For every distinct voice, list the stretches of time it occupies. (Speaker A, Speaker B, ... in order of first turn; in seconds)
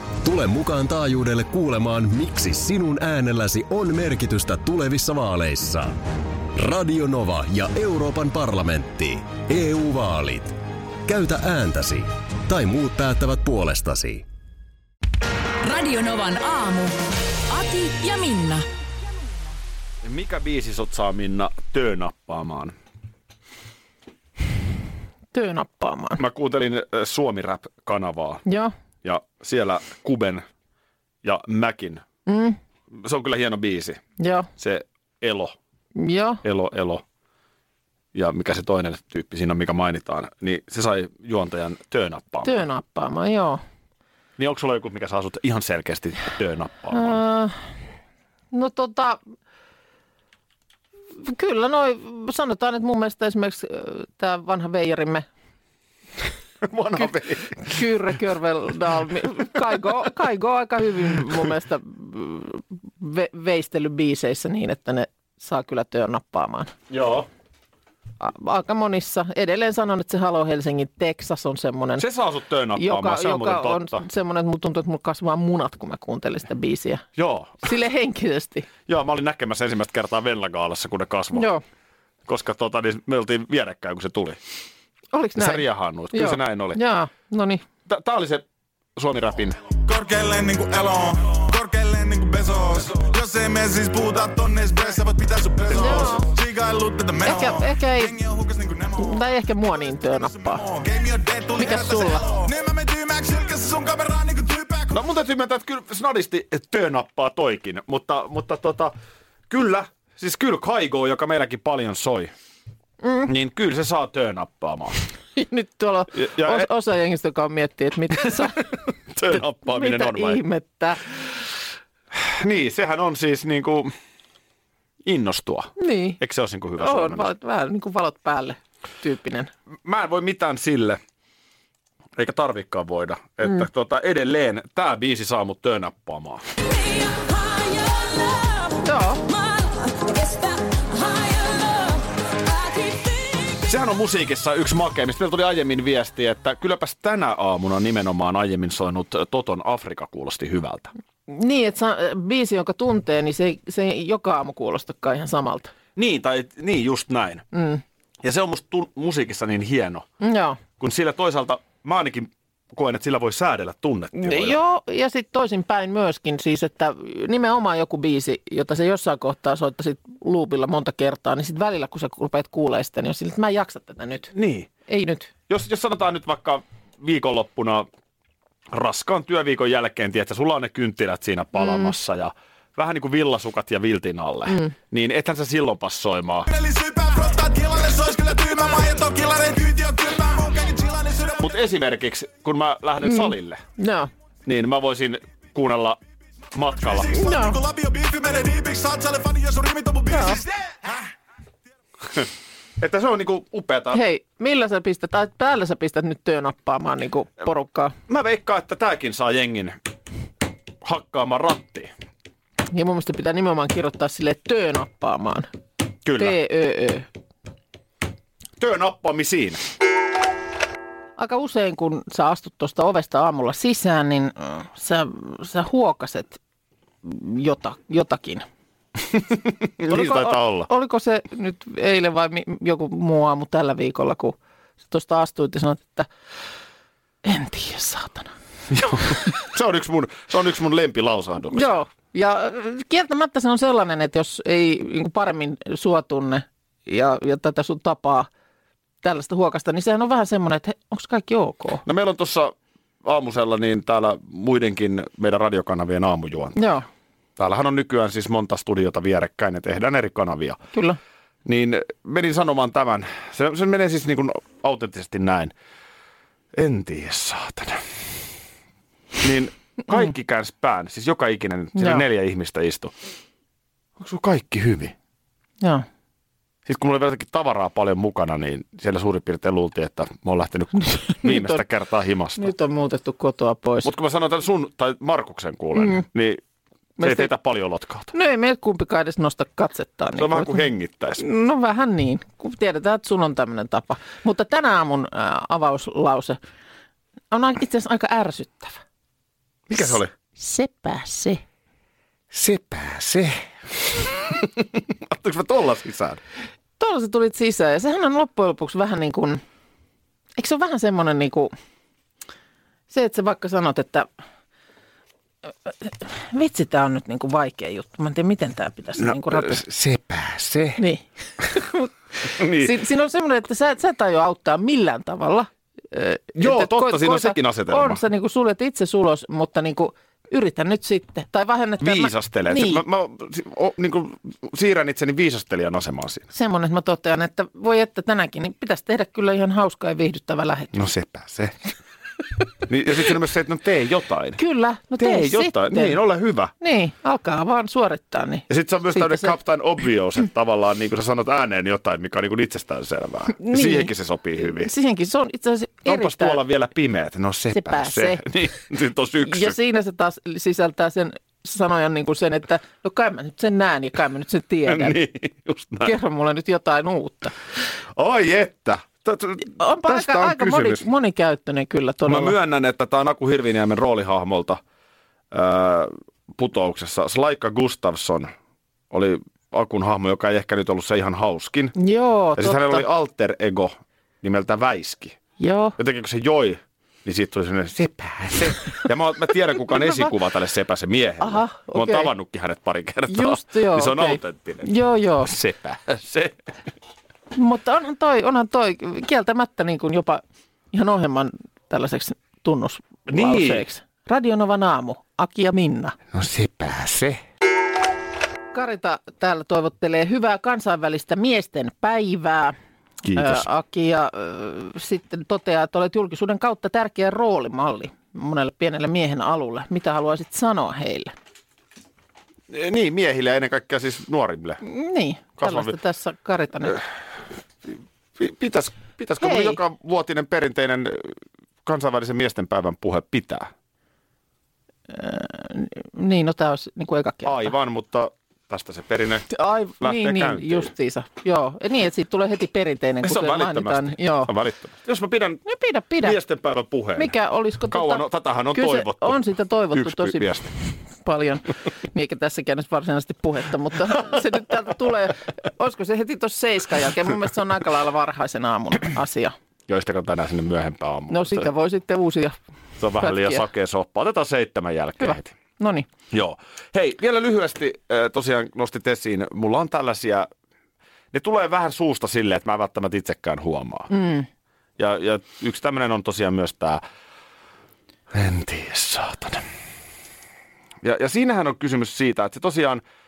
Speaker A: 0.2-6.0, 6.5-14.2
Speaker B: 15.6-17.0, 17.5-18.6, 136.7-143.5
Speaker C: 20.0-22.7, 26.2-28.4, 29.0-30.4, 31.2-32.0, 32.9-34.0, 34.5-35.5, 36.4-37.0, 38.1-42.6, 44.4-47.2, 56.6-57.8, 66.9-67.3, 72.0-74.0, 77.2-77.7, 78.9-81.5, 82.2-84.4, 85.4-86.8, 87.9-88.4, 89.0-89.6, 104.9-108.9, 109.5-112.3, 113.2-115.0, 116.1-116.7, 119.1-120.4, 122.1-123.9, 125.0-127.3, 129.8-131.0, 132.2-136.4, 143.7-150.9, 155.9-157.4, 158.2-160.1, 160.8-164.6, 174.3-174.7, 175.5-177.8, 178.7-186.5, 191.4-193.6, 194.4-196.0, 196.5-197.1, 202.8-204.0, 208.1-209.8, 210.8-211.9, 216.0-216.4, 218.6-219.6, 229.1-230.7, 238.7-241.7, 251.8-256.6, 257.4-260.6, 261.4-265.5, 266.5-268.0, 269.2-272.9, 274.0-274.9, 276.6-282.5, 283.8-286.4, 287.0-288.1, 290.2-291.2, 299.7-300.1, 302.3-306.2, 319.0-320.8, 322.3-322.8, 326.3-328.0, 331.8-336.3, 340.7-341.6, 342.7-344.4, 344.9-346.5, 348.5-354.7, 355.8-359.6, 364.7-365.9, 367.9-370.9, 372.1-374.6, 375.3-378.3, 378.9-381.8, 382.4-385.2, 385.8-394.7, 395.2-396.4, 403.1-403.6, 406.1-407.2, 413.1-413.4, 422.5-424.6, 425.4-425.7, 428.2-431.1, 431.6-433.5, 437.2-439.3, 439.8-440.7, 443.0-445.4, 446.0-447.1, 447.7-449.2, 449.7-450.5, 459.7-461.5, 462.8-465.4, 466.1-470.3, 471.1-473.9, 474.8-476.8, 478.1-479.4, 480.8-482.8
Speaker D: 25.3-26.2, 28.4-28.7, 32.2-32.6, 34.2-34.5, 36.0-36.4, 42.4-43.6, 46.9-47.6, 48.5-49.2, 51.2-55.2, 57.6-66.7, 68.2-72.0, 72.8-77.0, 77.6-78.7, 81.3-81.6, 85.1-87.7, 95.7-96.3, 97.2-98.1, 99.0-100.6, 101.6-102.2, 113.0-113.3, 115.3-118.6, 119.6-121.1, 125.8-126.2, 126.8-129.5, 138.8-139.2, 151.3-155.7, 157.5-157.8, 160.2-160.6, 164.1-174.3, 174.9-175.3, 181.6-181.9, 193.0-194.1, 197.1-197.6, 200.1-200.4, 203.9-207.9, 212.7-215.5, 216.2-217.1, 221.2-226.4, 227.0-228.4, 229.9-236.1, 237.2-238.3, 241.5-248.3, 249.0-251.8, 256.6-256.9, 260.7-261.0, 271.8-272.0, 280.9-281.6, 282.4-283.9, 287.0-287.3, 288.1-290.6, 291.2-296.4, 297.3-298.8, 300.4-301.4, 306.8-309.4, 310.4-311.5, 312.9-314.1, 315.6-319.6, 320.8-332.8, 336.3-340.8, 344.4-346.0, 346.6-349.3, 353.4-356.4, 357.5-358.2, 359.2-365.0, 365.8-367.3, 369.5-372.4, 381.8-382.8, 385.4-385.8, 389.8-390.1, 391.2-392.1, 393.1-395.3, 397.3-406.0, 408.5-412.6, 413.1-421.1, 424.6-426.8, 429.2-429.6, 434.9-437.5, 439.3-444.3, 445.4-446.2, 446.9-450.4, 451.0-459.3, 461.1-462.4, 463.0-463.4, 465.0-465.9, 473.9-474.3
Speaker E: 89.8-99.2, 100.1-105.0, 186.5-191.5, 196.8-200.9